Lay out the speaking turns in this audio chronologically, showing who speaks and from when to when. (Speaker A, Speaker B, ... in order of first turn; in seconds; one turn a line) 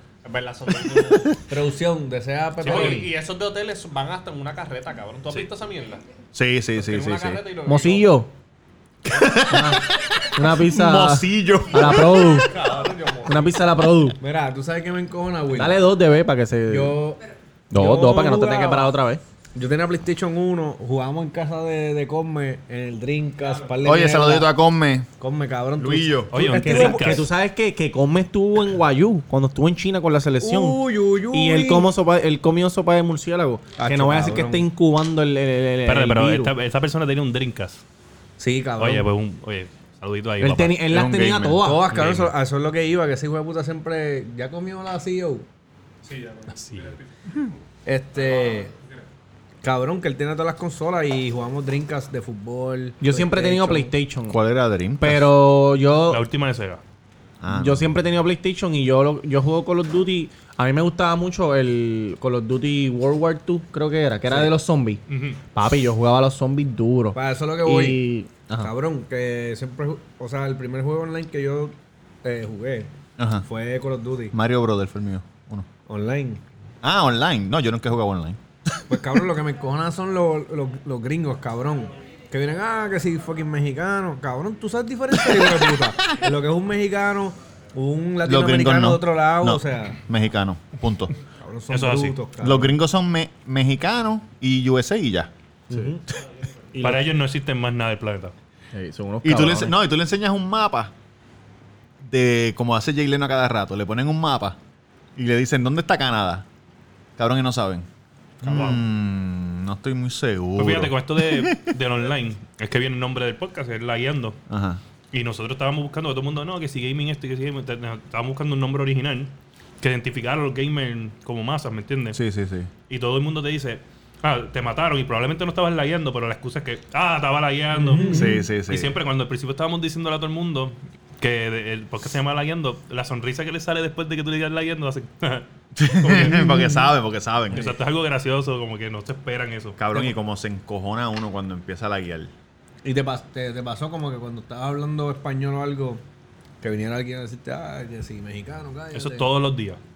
Speaker A: 0.2-1.4
Speaker B: 1.5-3.1
Speaker A: 2.6-6.0
Speaker C: 2.6-3.0
Speaker D: 6.3-7.4
Speaker A: 6.8-8.2
Speaker E: 7.7-8.3
Speaker D: 9.1-12.4
Speaker E: 9.4-12.5
Speaker A: 12.3-13.7
Speaker E: 13.2-14.2
Speaker B: 14.2-15.9
Speaker E: 15.5-17.0
Speaker B: 16.7-17.2
Speaker E: 17.7-19.2
Speaker B: 17.7-18.9
Speaker B: 19.5-24.5
Speaker D: 23.8-25.1
Speaker B: 25.2-27.3
Speaker D: 25.8-26.4
Speaker C: 26.3-27.3
Speaker E: 26.6-36.5
Speaker B: 30.4-31.9
Speaker B: 33.8-34.6
Speaker C: 35.8-37.8
Speaker B: 38.4-39.1
Speaker C: 38.8-40.8
Speaker E: 40.4-41.9
Speaker D: 40.9-41.6
Speaker B: 41.6-45.5
Speaker C: 41.9-42.3
Speaker A: 46.0-47.0
Speaker C: 46.5-47.0
Speaker B: 47.9-48.7
Speaker B: 49.6-53.9
Speaker E: 53.0-54.4
Speaker D: 54.3-55.4
Speaker E: 55.0-56.2
Speaker C: 56.1-56.8
Speaker D: 57.4-58.0
Speaker E: 57.5-65.0
Speaker C: 65.1-65.4
Speaker E: 65.5-68.7
Speaker B: 67.1-68.0
Speaker B: 68.6-72.9
Speaker D: 73.2-73.5
Speaker B: 73.5-74.3
Speaker D: 74.3-75.7
Speaker B: 75.9-76.4
Speaker D: 76.8-79.0
Speaker B: 78.9-90.0
Speaker D: 85.1-86.2
Speaker D: 88.2-91.1
Speaker B: 91.4-92.7
Speaker C: 91.7-92.2
Speaker D: 92.4-95.3
Speaker E: 95.7-96.0
Speaker B: 95.7-96.0
Speaker E: 96.7-97.0
Speaker C: 96.8-98.3
Speaker E: 98.7-99.7
Speaker D: 99.2-100.9
Speaker D: 102.0-104.6
Speaker D: 105.2-106.4
Speaker D: 107.2-107.9
Speaker D: 108.4-111.8
Speaker C: 108.5-108.8
Speaker C: 110.6-114.4
Speaker D: 114.5-114.8
Speaker C: 115.1-122.2
Speaker D: 122.1-122.7
Speaker C: 122.9-136.6
Speaker B: 127.7-128.4
Speaker D: 128.1-129.0
Speaker D: 135.8-137.7
Speaker C: 137.5-140.1
Speaker D: 139.8-142.3
Speaker B: 142.8-146.0
Speaker B: 146.6-149.3
Speaker C: 148.9-149.8